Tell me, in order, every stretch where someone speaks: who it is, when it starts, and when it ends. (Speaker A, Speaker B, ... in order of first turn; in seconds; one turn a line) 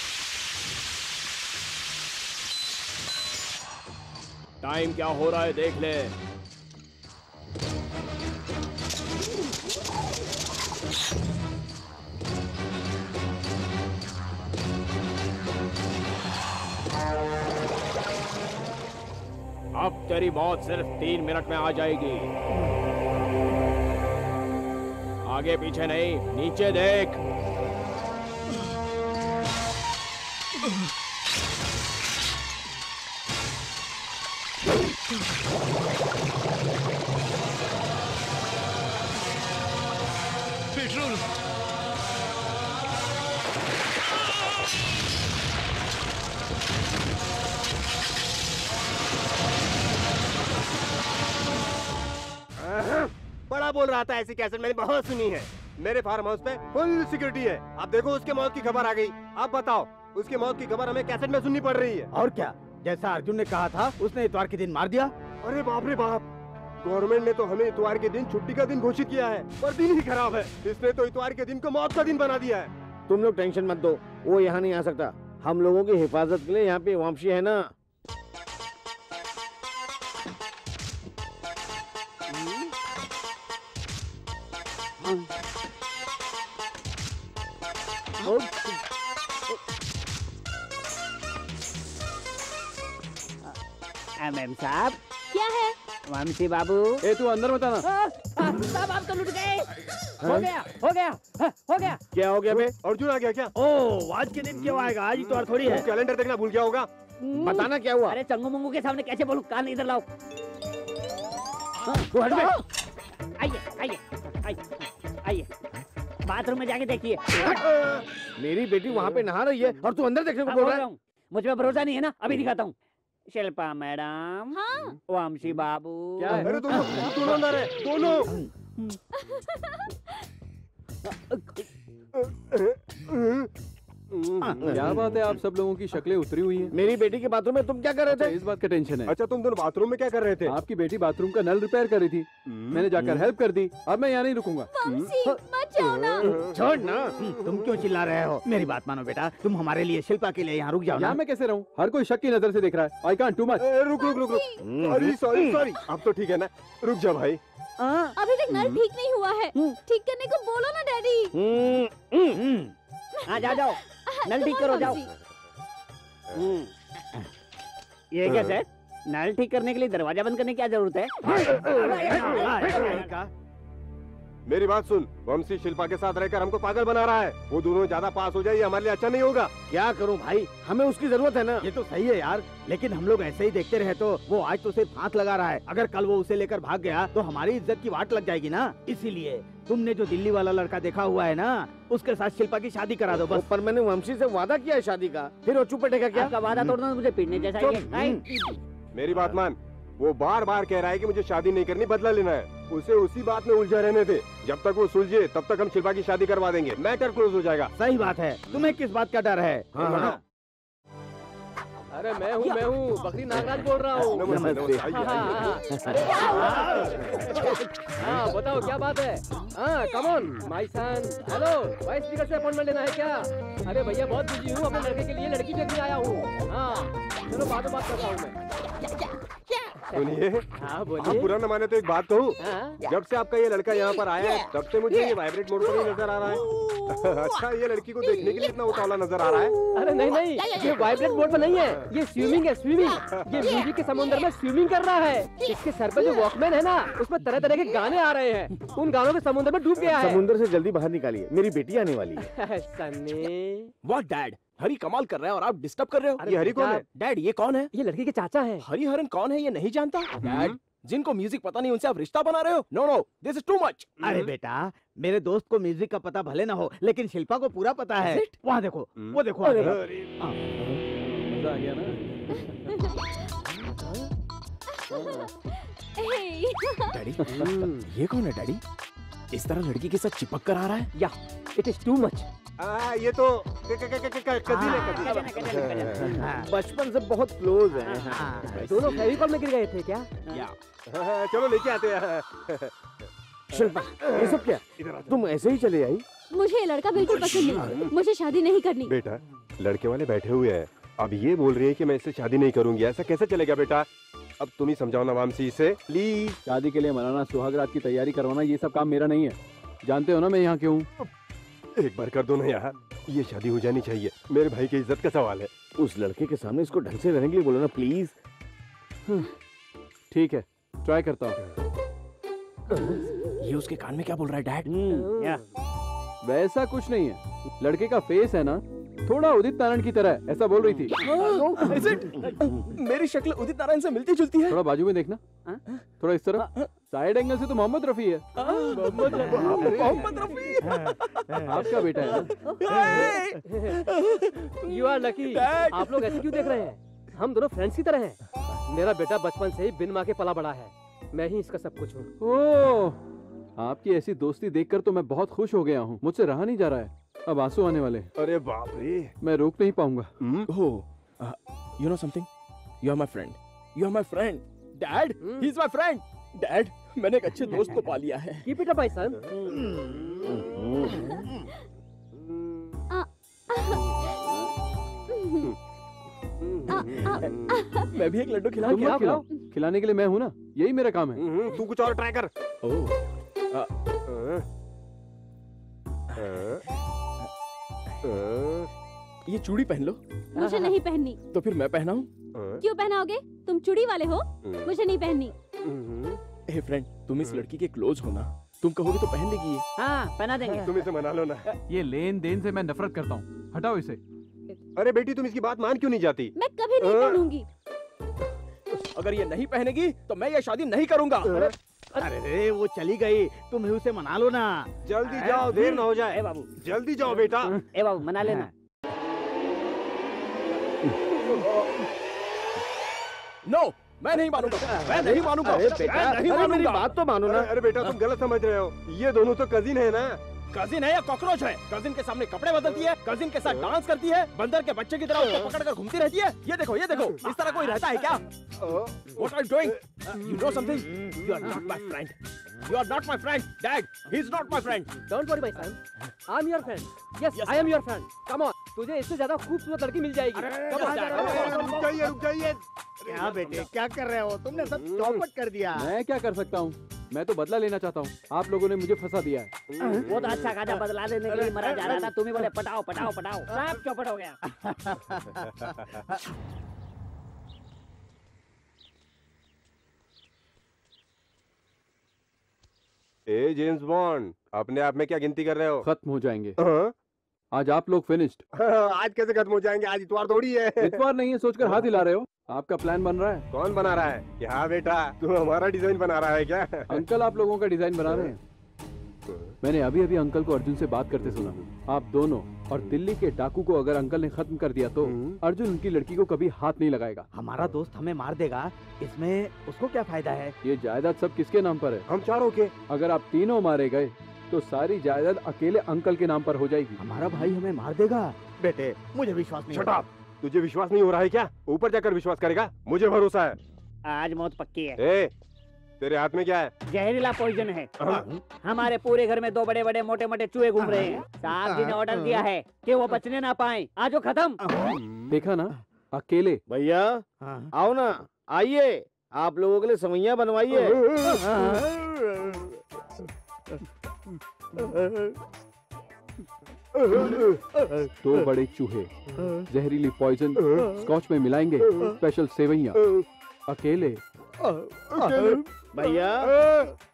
Speaker A: 4.6-6.1
Speaker A: 19.8-22.3
Speaker A: 25.3-27.2
Speaker B: 52.6-62.1
Speaker C: 62.1-65.1
Speaker B: 65.4-66.2
Speaker B: 66.8-72.7
Speaker D: 73.1-77.7
Speaker E: 88.2-88.7
Speaker E: 94.2-95.0
Speaker F: 95.3-95.8
Speaker E: 96.1-97.0
Speaker G: 97.0-97.9
Speaker E: 97.8-99.7
Speaker E: 100.2-102.0
Speaker D: 102.1-102.7
Speaker B: 102.5-103.5
Speaker E: 103.5-105.9
Speaker B: 105.2-106.9
Speaker E: 107.2-110.0
Speaker D: 107.4-108.2
Speaker D: 112.2-112.5
Speaker E: 112.3-112.6
Speaker E: 113.4-115.5
Speaker E: 116.3-117.5
Speaker D: 118.4-120.8
Speaker E: 120.5-122.7
Speaker E: 123.3-124.6
Speaker F: 124.5-125.0
Speaker E: 125.1-126.4
Speaker G: 126.2-127.7
Speaker B: 126.3-128.3
Speaker F: 129.2-130.0
Speaker E: 131.1-131.6
Speaker B: 132.2-133.5
Speaker B: 134.1-134.7
Speaker C: 134.4-135.0
Speaker D: 134.6-135.0
Speaker G: 134.7-136.7
Speaker D: 136.7-138.3
Speaker G: 138.1-139.2
Speaker B: 139.1-140.6
Speaker G: 140.4-145.1
Speaker B: 142.5-142.9
Speaker D: 143.0-143.2
Speaker F: 144.7-146.4
Speaker B: 146.2-146.9
Speaker C: 146.3-151.2
Speaker D: 146.7-147.1
Speaker G: 151.0-153.7
Speaker B: 153.6-157.4
Speaker F: 154.0-154.6
Speaker D: 154.6-155.2
Speaker E: 157.8-158.2
Speaker F: 158.2-161.4
Speaker D: 161.3-162.3
Speaker F: 163.2-165.1
Speaker E: 163.3-165.0
Speaker E: 166.3-166.7
Speaker E: 168.1-173.1
Speaker B: 168.3-168.6
Speaker C: 171.4-173.3
Speaker B: 174.5-179.5
Speaker D: 179.7-181.7
Speaker C: 181.6-193.5
Speaker D: 193.3-196.3
Speaker E: 196.1-198.6
Speaker C: 197.6-198.2
Speaker B: 198.9-207.7
Speaker C: 207.8-210.2
Speaker D: 209.8-210.1
Speaker A: 209.8-210.1
Speaker H: 211.9-228.4
Speaker B: 214.0-215.4
Speaker D: 214.2-215.0
Speaker D: 215.7-216.0
Speaker B: 229.9-230.4
Speaker H: 230.6-231.4
Speaker B: 231.0-239.6
Speaker H: 232.4-232.8
Speaker H: 239.7-250.2
Speaker B: 243.1-243.4
Speaker D: 249.9-252.2
Speaker H: 252.2-253.7
Speaker A: 253.8-257.7
Speaker H: 256.2-256.8
Speaker B: 256.3-256.9
Speaker H: 257.7-258.7
Speaker A: 258.6-264.0
Speaker B: 260.3-260.6
Speaker B: 264.0-264.3
Speaker C: 264.0-270.4
Speaker B: 269.0-270.1
Speaker G: 271.1-272.0
Speaker F: 272.4-273.0
Speaker F: 274.7-277.0
Speaker A: 276.9-278.6
Speaker G: 277.2-277.5
Speaker H: 277.3-277.8
Speaker A: 279.3-280.9
Speaker H: 280.9-282.3
Speaker B: 282.6-286.2
Speaker E: 284.5-286.0
Speaker C: 284.5-285.1
Speaker C: 286.0-286.5
Speaker D: 286.5-288.3
Speaker E: 287.9-288.2
Speaker C: 288.1-288.6
Speaker H: 288.5-290.1
Speaker A: 288.6-289.0
Speaker A: 290.3-290.6
Speaker B: 290.9-292.7
Speaker D: 293.5-296.0
Speaker B: 294.0-295.1
Speaker F: 296.3-298.9
Speaker A: 297.3-297.8
Speaker B: 298.9-303.9
Speaker B: 304.4-306.4
Speaker G: 306.4-310.9
Speaker B: 311.8-315.6
Speaker D: 315.8-318.1
Speaker G: 320.1-321.4
Speaker A: 323.4-324.8
Speaker H: 325.1-325.4
Speaker E: 325.1-325.4
Speaker G: 326.2-331.0
Speaker A: 331.0-334.6
Speaker G: 334.5-335.2
Speaker G: 336.0-338.3
Speaker A: 338.4-344.7
Speaker H: 338.5-339.7
Speaker G: 339.5-340.0
Speaker G: 341.4-342.4
Speaker H: 342.6-343.7
Speaker H: 344.6-348.2
Speaker A: 345.3-346.5
Speaker H: 348.7-352.1
Speaker G: 352.2-353.0
Speaker G: 353.6-358.1
Speaker B: 358.2-359.1
Speaker G: 359.2-360.1
Speaker B: 360.2-360.5
Speaker A: 360.5-362.3
Speaker A: 362.8-368.5
Speaker H: 365.2-365.5
Speaker H: 368.4-369.3
Speaker C: 369.5-370.3
Speaker F: 370.9-371.3
Speaker F: 372.9-374.2
Speaker F: 375.1-375.6
Speaker B: 376.4-377.6
Speaker F: 376.7-377.9
Speaker A: 377.8-379.1
Speaker H: 378.6-379.2
Speaker G: 378.6-381.4
Speaker B: 381.2-382.3
Speaker A: 382.6-382.9
Speaker B: 384.1-384.4
Speaker B: 386.2-386.6
Speaker B: 388.0-388.7
Speaker A: 389.3-390.0
Speaker F: 390.4-391.2
Speaker A: 391.3-392.1
Speaker B: 392.4-392.6
Speaker F: 392.6-395.4
Speaker B: 394.4-394.7
Speaker B: 395.6-396.2
Speaker A: 396.5-399.6
Speaker E: 399.8-400.7
Speaker B: 400.5-401.4
Speaker G: 401.7-404.0
Speaker B: 404.8-407.3
Speaker F: 406.4-407.5
Speaker A: 408.9-411.4
Speaker C: 411.9-414.7
Speaker B: 414.9-417.6
Speaker E: 415.1-416.5
Speaker E: 417.6-418.5
Speaker A: 423.4-427.0
Speaker D: 424.9-427.5
Speaker H: 425.6-426.0
Speaker B: 427.2-430.2
Speaker A: 430.5-438.2
Speaker B: 438.6-439.1
Speaker A: 439.1-444.9
Speaker H: 445.1-451.1
Speaker A: 447.3-447.7
Speaker A: 450.3-451.5
Speaker C: 450.7-452.0
Speaker B: 451.2-452.6
Speaker E: 451.6-452.0
Speaker C: 453.1-455.9
Speaker B: 454.8-455.3
Speaker G: 455.8-459.5
Speaker B: 459.7-460.5
Speaker E: 460.1-464.4
Speaker C: 464.8-465.2
Speaker B: 473.3-475.9
Speaker G: 475.8-476.6
Speaker B: 476.6-476.9
Speaker G: 477.5-478.4
Speaker B: 478.5-481.0
Speaker G: 480.8-483.5
Speaker B: 483.5-487.0
Speaker G: 486.9-488.4
Speaker B: 488.1-488.3
Speaker G: 489.6-497.3
Speaker B: 491.3-491.7
Speaker B: 495.0-495.4
Speaker C: 497.3-500.6
Speaker G: 500.6-502.1
Speaker B: 502.1-502.7
Speaker G: 502.9-507.0
Speaker C: 507.0-510.0
Speaker B: 509.7-513.6
Speaker E: 514.0-515.0
Speaker B: 515.0-515.3
Speaker B: 516.0-516.7
Speaker E: 516.9-517.9
Speaker B: 518.0-518.3
Speaker E: 518.6-524.6
Speaker C: 524.6-525.0
Speaker G: 525.3-526.6
Speaker D: 526.7-531.0
Speaker C: 527.4-527.7
Speaker B: 531.0-531.4
Speaker B: 537.0-537.6
Speaker G: 538.2-539.1
Speaker G: 539.7-543.0
Speaker B: 540.6-540.9
Speaker B: 543.0-543.2
Speaker G: 543.7-544.2
Speaker B: 545.1-545.6
Speaker D: 545.2-546.5
Speaker B: 546.4-546.9